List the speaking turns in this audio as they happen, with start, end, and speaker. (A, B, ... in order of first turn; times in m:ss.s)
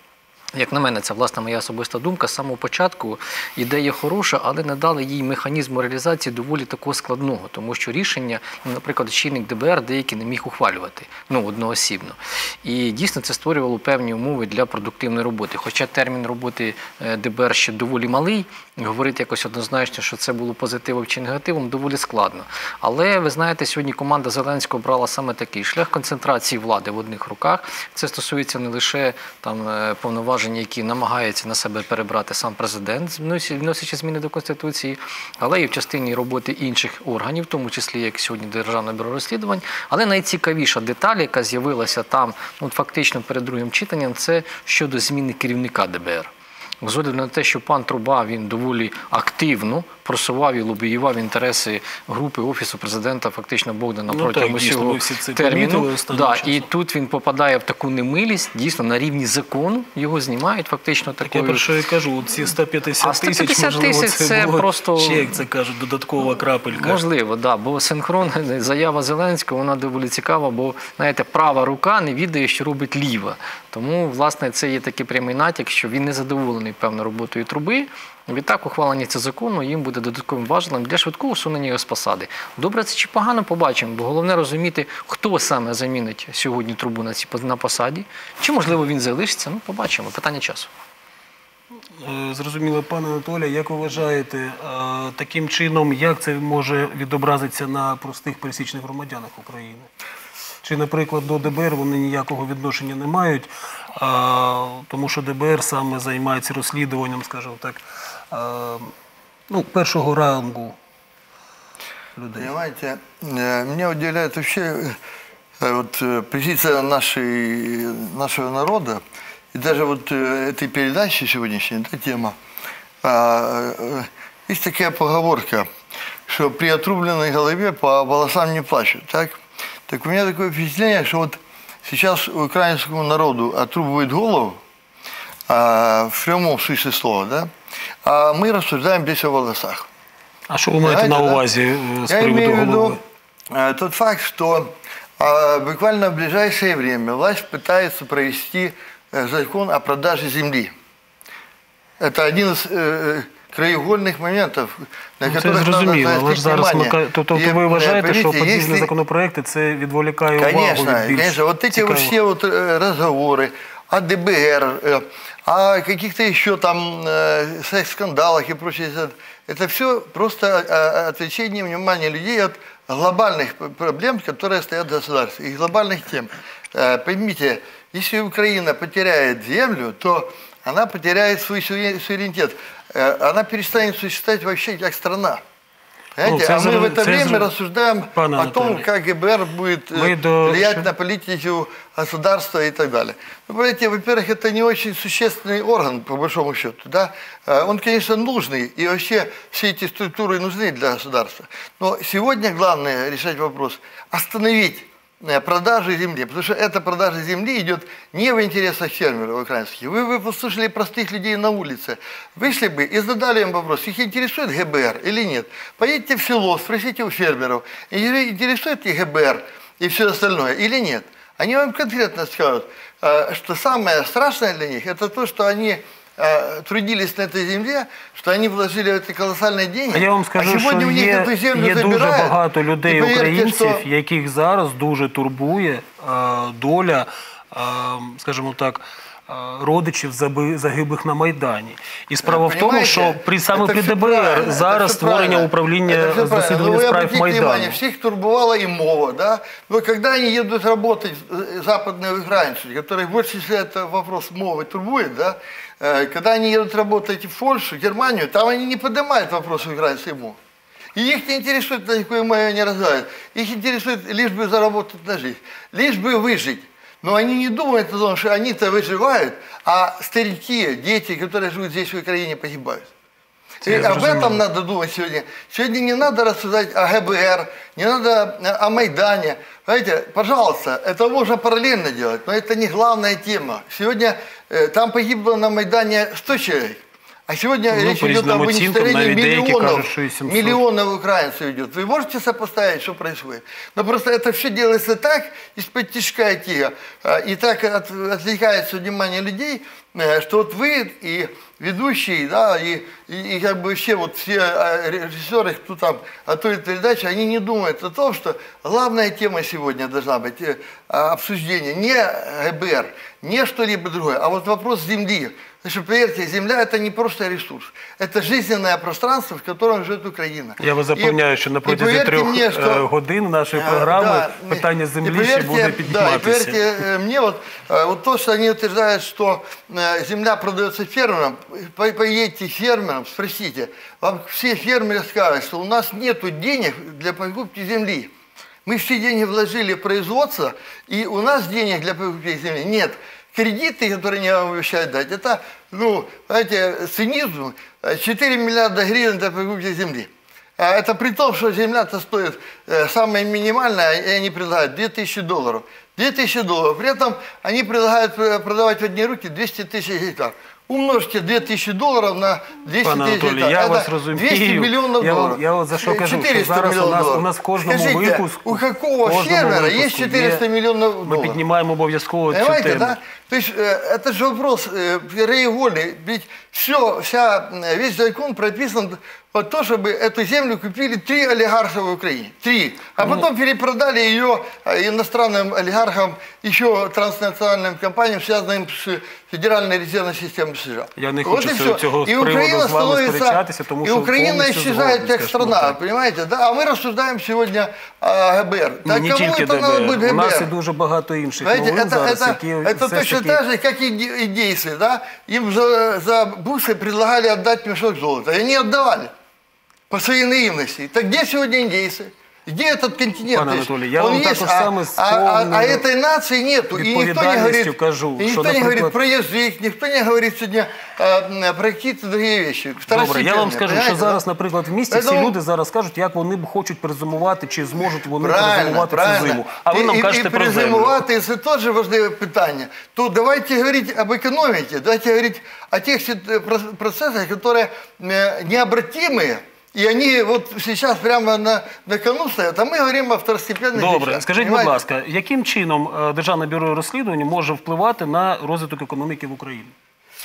0:00.5-1:01.7 A
0:54.1-0:56.7 B
1:01.2-1:07.0 B
1:03.0-1:05.3 A
1:06.8-1:30.7 A
1:32.0-1:39.9 B
1:40.6-1:48.9 B
1:49.5-1:50.8 B
1:52.2-1:52.5 B
1:52.4-1:55.0 C
1:55.6-2:02.4 C
2:03.0-2:05.7 C
2:06.3-2:14.6 C
2:15.5-2:17.5 C
2:18.0-2:19.9 C
2:20.5-2:23.0 B
2:20.8-2:21.4 C
2:22.1-2:23.0 C
2:23.5-2:30.7 C
2:32.0-2:38.9 C
2:35.2-2:42.1 B
2:40.4-3:05.4 C
3:06.2-3:53.8 C
3:06.2-3:07.5 B
3:08.2-3:08.8 B
3:09.9-3:10.9 B
3:49.9-4:07.8 B
4:02.2-4:20.4 C
4:20.9-4:32.9 C
4:33.6-4:34.4 B
4:33.6-5:22.9 C
4:47.7-4:50.6 B
5:20.6-5:26.7 B
5:23.5-5:38.1 C
5:38.6-6:11.4 C
6:02.8-6:10.4 B
6:11.0-6:13.0 B
6:12.3-6:40.5 C
6:23.0-6:23.2 B
6:31.0-6:35.8 B
6:38.9-6:43.4 B
6:41.4-6:49.1 C
6:49.9-7:04.2 C
6:53.3-6:55.8 B
6:56.8-6:59.0 B
7:02.9-7:11.0 B
7:04.9-7:05.4 C
7:08.2-7:24.8 C
7:23.7-7:29.7 B